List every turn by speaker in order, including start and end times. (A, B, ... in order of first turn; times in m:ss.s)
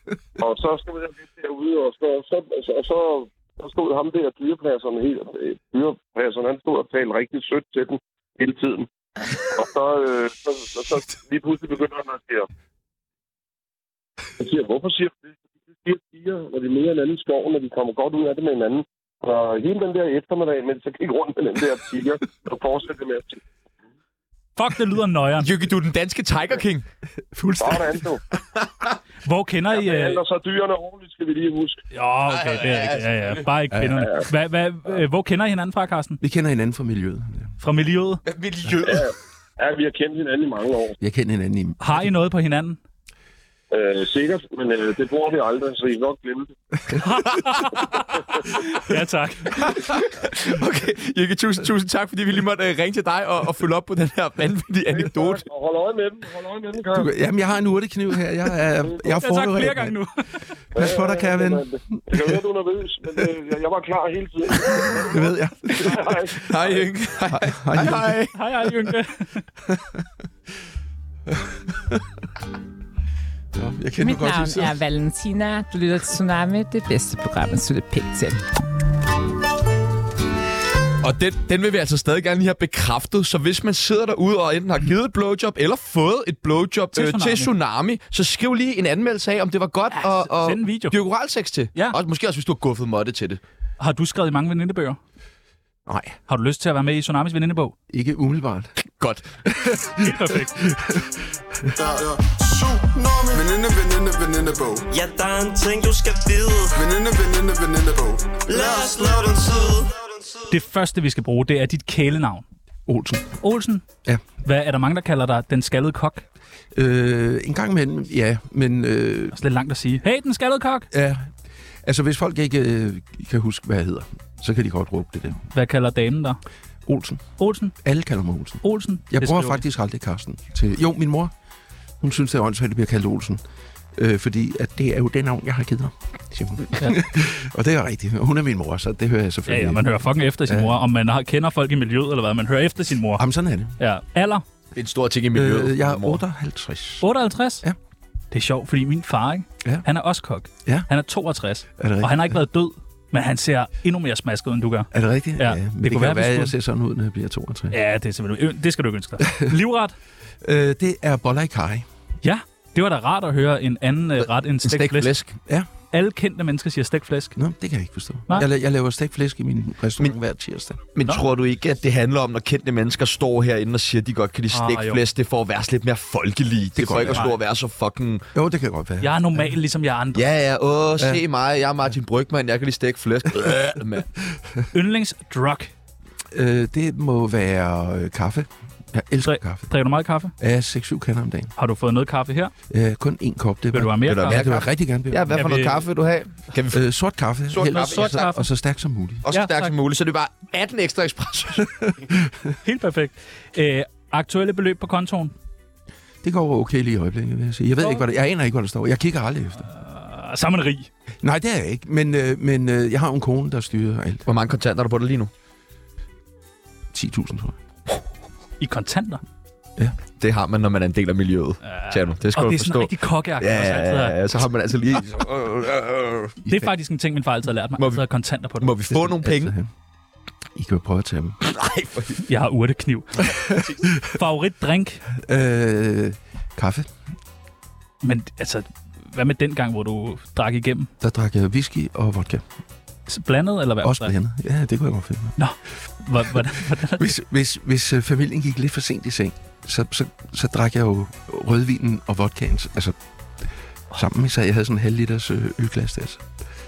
0:00.4-0:12.5 A
0:14.4-0:23.4 A
0:24.6-0:25.5 B
0:25.4-0:26.8 C
0:27.3-0:28.0 D
0:27.6-0:28.2 A
0:29.2-0:30.2 B
0:29.7-0:31.8 A
0:31.9-0:36.2 B
0:32.3-0:33.4 C
0:33.7-0:34.0 D
0:36.2-0:37.5 D
0:37.6-0:38.2 B
0:38.2-0:39.1 C
0:38.8-0:41.0 A
0:41.0-0:41.9 D
0:41.8-0:42.8 B
0:43.7-0:46.5 A
0:47.0-0:49.8 B
0:49.7-0:55.4 C
0:54.9-0:57.1 A
0:56.9-1:00.0 D
0:59.2-1:00.5 B
1:00.7-1:02.4 D
1:00.7-1:06.8 A
1:05.0-1:06.2 D
1:06.4-1:08.3 C
1:07.3-1:08.2 D
1:08.3-1:09.4 B
1:09.6-1:10.0 D
1:11.3-1:12.0 D
1:13.5-1:14.8 D
1:14.0-1:18.4 E
1:21.0-1:33.4 C
1:26.9-1:27.5 B
1:29.9-1:30.9 B
1:33.8-1:35.0 B
1:35.9-1:36.2 D
1:36.3-1:37.7 B
1:37.9-1:38.7 D
1:39.0-1:39.2 C
1:39.4-1:41.8 D
1:40.0-1:40.6 B
1:41.8-1:44.8 F
1:44.9-1:46.7 G
1:46.7-1:48.9 F
1:48.5-1:50.4 G
1:50.5-1:52.4 B
1:52.8-1:53.4 D
1:53.4-1:53.8 B
1:54.4-1:56.2 B
1:56.7-1:59.4 D
1:59.3-2:00.9 B
2:00.9-2:01.3 D
2:01.8-2:05.4 D
2:05.5-2:06.4 B
2:06.8-2:07.2 D
2:07.4-2:07.7 B
2:07.8-2:11.3 D
2:08.6-2:09.6 B
2:12.0-2:13.4 D
2:13.9-2:19.9 D
2:19.5-2:23.2 B
2:20.4-2:20.8 D
2:23.2-2:23.8 D
2:23.8-2:24.4 B
2:24.7-2:26.2 C
2:25.3-2:27.1 D
2:27.0-2:27.6 B
2:28.3-2:36.5 B
2:31.8-2:32.4 D
2:34.9-2:37.8 D
2:37.7-2:39.9 B
2:40.4-2:41.8 D
2:42.2-2:45.1 B
2:44.6-2:45.3 C
2:45.9-2:47.4 B
2:47.4-2:50.8 D
2:50.9-2:58.2 C
2:54.5-2:55.0 B
2:56.8-2:57.3 D
2:58.3-2:59.1 D
2:59.0-3:00.2 B
3:00.1-3:04.1 C
3:04.7-3:05.7 B
3:06.3-3:09.7 D
3:09.2-3:10.3 B
3:10.4-3:11.5 D
3:11.6-3:12.5 B
3:12.7-3:15.5 D
3:13.7-3:14.5 B
3:14.1-3:16.8 C
3:15.3-3:15.8 B
3:16.7-3:19.2 D
3:17.5-3:18.3 C
3:17.7-3:18.5 B
3:19.2-3:21.9 C
3:19.3-3:19.7 B
3:22.6-3:25.3 B
3:26.2-3:29.7 D
3:29.6-3:30.9 B
3:31.2-3:34.2 D
3:34.2-3:35.3 C
3:36.9-3:37.6 D
3:38.6-3:39.2 B
3:40.2-3:46.4 C
3:41.6-3:44.2 B
3:46.4-3:46.7 D
3:46.4-3:48.7 B
3:48.6-3:49.5 C
3:48.9-3:49.7 D
3:50.5-3:51.4 D
3:51.4-3:52.2 C
3:52.2-3:53.4 B
3:54.0-3:55.0 B
3:55.2-3:56.9 D
3:58.0-4:00.9 B
4:01.0-4:02.4 D
4:03.1-4:04.1 B
4:03.8-4:05.4 D
4:05.4-4:07.1 B
4:06.8-4:13.0 D
4:13.9-4:16.2 D